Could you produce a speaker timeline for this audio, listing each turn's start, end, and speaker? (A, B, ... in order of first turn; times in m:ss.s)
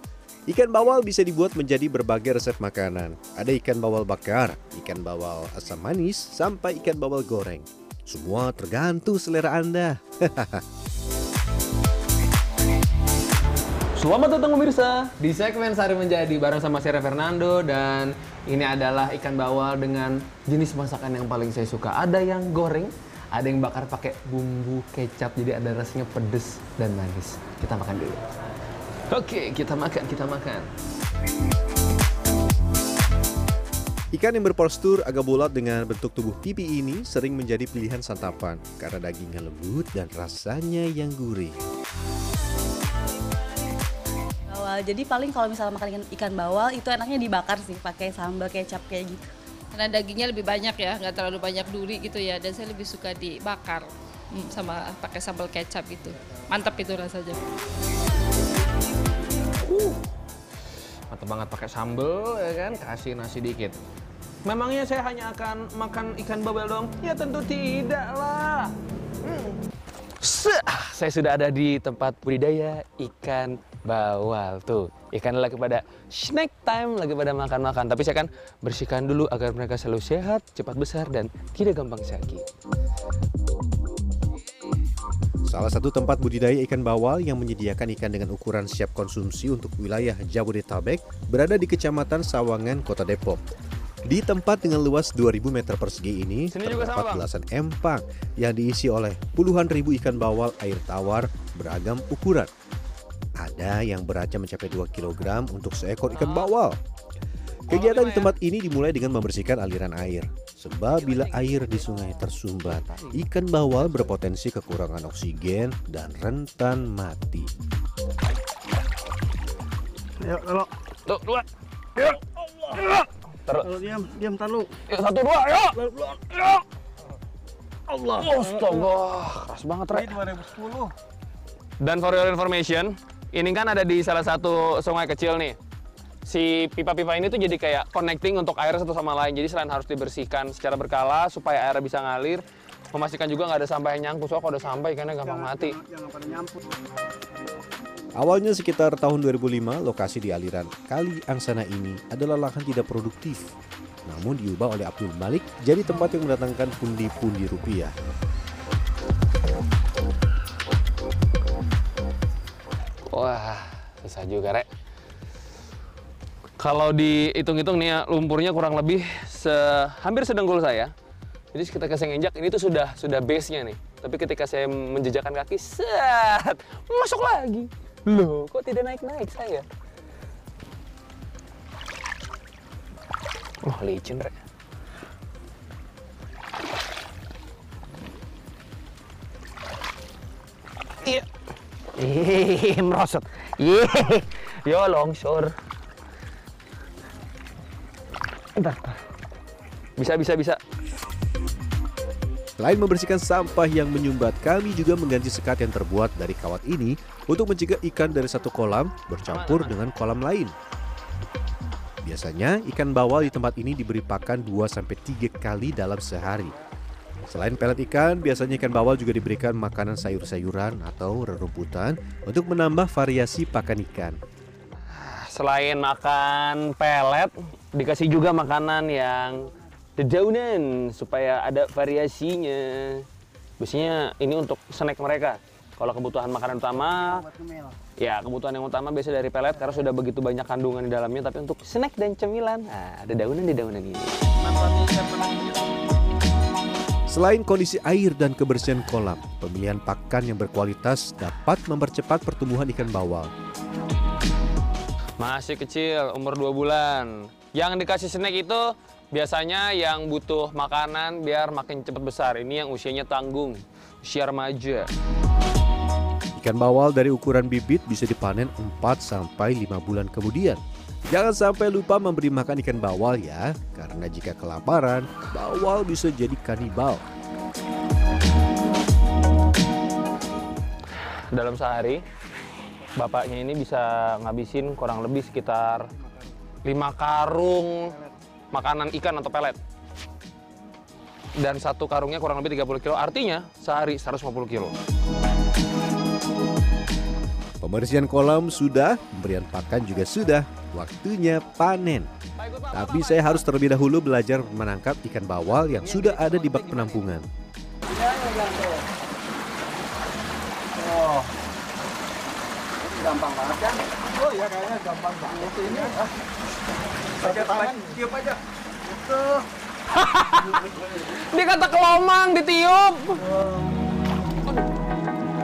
0:00.5-0:10.6 A
0:14.0-0:28.2 B
0:29.1-0:30.7 B
0:34.1-0:41.6 A
0:44.5-0:49.3 C
0:49.8-0:57.4 D
0:59.6-1:00.1 B
1:01.1-1:03.8 B
1:04.4-1:09.6 B
1:10.2-1:22.5 B
1:25.5-1:33.4 A
1:34.1-1:42.5 A
1:36.5-1:37.3 B
1:43.4-1:46.8 A
1:46.1-1:46.5 B
1:47.7-1:57.5 A
1:47.7-1:48.4 B
1:51.0-1:52.0 B
1:52.7-1:53.3 B
2:00.2-2:00.7 E
2:01.1-2:03.0 B
2:03.6-2:04.7 E
2:04.9-2:06.6 B
2:08.0-2:10.2 B
2:09.9-2:10.9 E
2:11.8-2:15.6 B
2:16.3-2:25.8 B
2:25.2-2:26.6 E
2:28.2-2:33.5 A
2:34.1-2:37.9 A
2:43.1-2:44.7 B
2:46.6-2:50.9 B
2:51.5-2:59.7 B
3:03.6-3:04.4 B
3:12.0-3:15.5 B
3:18.6-3:19.0 B
3:20.0-3:20.6 B
3:22.6-3:30.5 A
3:29.2-3:29.9 B
3:32.0-3:36.5 A
3:37.3-3:44.2 A
3:44.9-3:53.1 B
3:53.6-3:57.2 B
3:57.0-3:57.7 E
3:58.0-4:05.3 B
4:07.1-4:13.3 A
4:15.2-4:24.9 B
4:26.4-4:37.0 A
4:41.3-4:42.0 B
4:43.0-4:45.9 B
4:46.6-4:47.9 B
4:48.5-4:49.6 B
4:51.4-4:54.8 B
4:57.6-5:02.1 A
5:02.4-5:03.5 B
5:02.7-5:07.3 A
5:05.7-5:07.1 B
5:13.3-5:13.6 E
5:14.2-5:15.7 E
5:15.6-5:15.9 B
5:17.3-5:17.7 B
5:17.4-5:18.0 E
5:19.9-5:23.3 B